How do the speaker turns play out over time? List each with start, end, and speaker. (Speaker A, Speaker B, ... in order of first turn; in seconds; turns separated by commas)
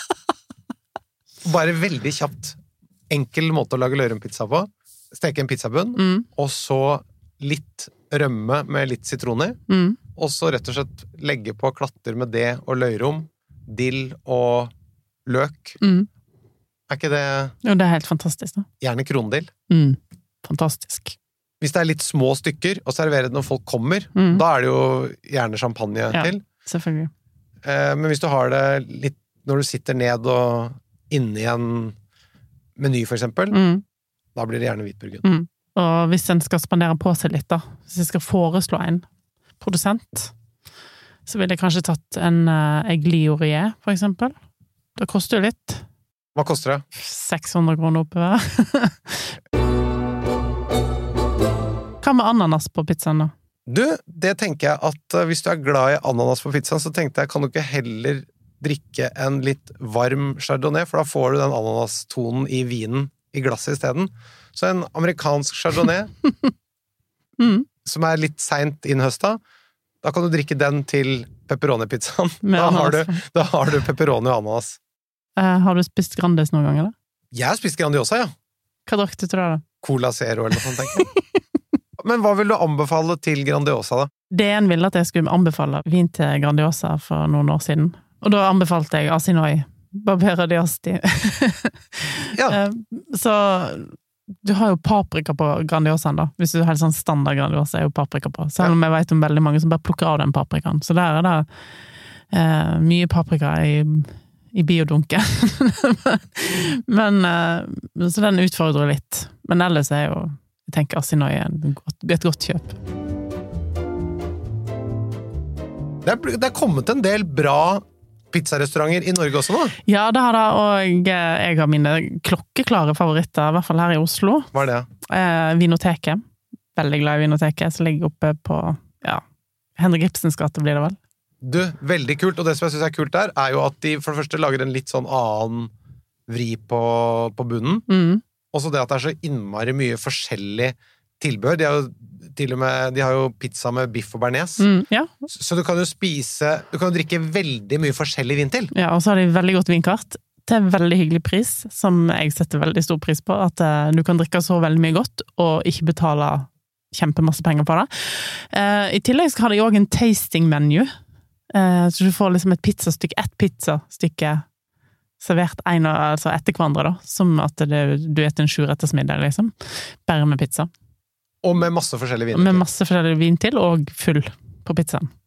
Speaker A: 1.4-2.6, Speaker A: 3.1-9.6, Speaker B: 6.0-6.3, Speaker B: 9.7-10.0, Speaker A: 10.2-14.7, Speaker A: 15.3-15.8, Speaker B: 15.8-16.1, Speaker A: 16.9-17.5, Speaker B: 17.6-18.7, Speaker A: 18.8-19.5, Speaker B: 19.7-21.2, Speaker A: 21.6-26.4, Speaker B: 24.2-24.4, Speaker B: 26.1-27.1, Speaker A: 27.6-31.9, Speaker A: 32.8-33.6, Speaker B: 33.5-33.8, Speaker A: 34.4-35.2, Speaker B: 35.2-39.1, Speaker B: 39.6-40.3, Speaker B: 41.3-44.3, Speaker B: 45.0-45.8, Speaker A: 46.4-46.8, Speaker B: 47.0-49.4, Speaker B: 52.0-53.3, Speaker A: 53.7-66.1, Speaker B: 67.4-67.7, Speaker A: 67.8-69.4, Speaker A: 70.0-74.8, Speaker B: 72.4-73.2, Speaker B: 75.4-76.9, Speaker A: 77.3-78.3, Speaker B: 78.9-79.6, Speaker A: 79.8-81.1, Speaker B: 80.9-81.2, Speaker A: 82.0-84.1, Speaker B: 84.3-101.5, Speaker A: 92.4-92.6, Speaker B: 102.3-112.8, Speaker A: 116.0-119.8, Speaker B: 119.9-124.5, Speaker A: 124.5-124.9, Speaker B: 125.1-126.2, Speaker B: 126.8-129.2, Speaker B: 129.8-131.0, Speaker A: 131.4-135.7, Speaker A: 136.3-137.9, Speaker B: 137.9-138.2, Speaker A: 138.5-144.7, Speaker B: 144.6-145.2, Speaker A: 145.3-148.7, Speaker B: 148.7-160.9, Speaker B: 161.5-164.4, Speaker B: 165.2-169.5, Speaker B: 170.1-170.7, Speaker A: 171.4-172.7, Speaker B: 172.3-175.1